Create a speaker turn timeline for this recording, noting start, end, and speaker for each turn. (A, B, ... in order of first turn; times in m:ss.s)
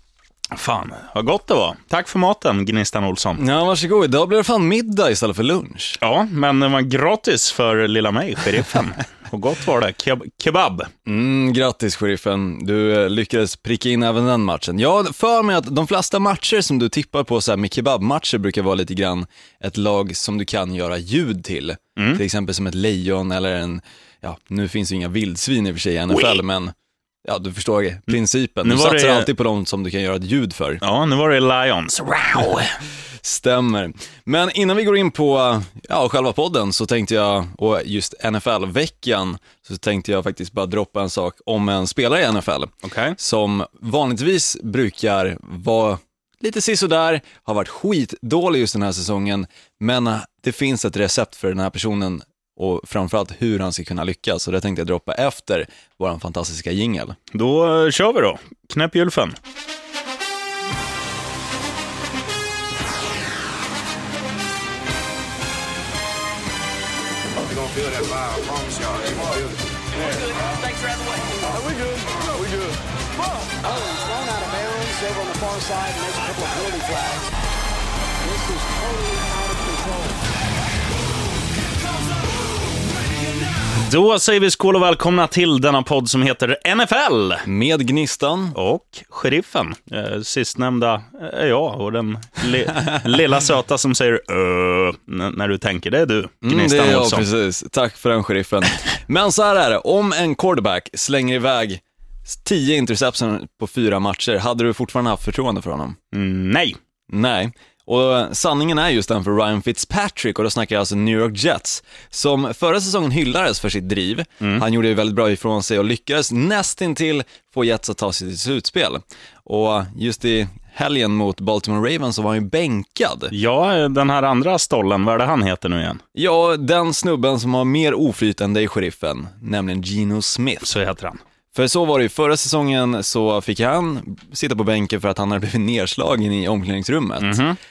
0:00.5-0:03.4 A
0:03.4-0:06.0 B
0:06.0-0:10.9 A
0:11.0-0:26.7 B
0:22.0-0:22.2 A
0:26.1-0:26.4 A
0:27.2-0:30.8 B
0:28.6-0:29.3 A
0:30.8-0:32.8 A
0:33.2-0:57.2 B
0:42.8-0:43.2 A
0:57.3-0:59.4 A
1:07.4-1:10.5 C
1:11.1-1:17.3 C
1:18.2-1:20.2 C
1:23.8-1:27.4 A
1:27.4-1:28.5 B
1:28.5-1:37.3 A
1:36.4-1:46.0 B
1:46.1-1:46.8 A
1:47.1-2:03.3 B
2:03.3-2:06.0 A
2:06.1-2:10.7 B
2:10.6-2:11.2 A
2:11.5-2:17.4 B
2:17.2-2:17.6 A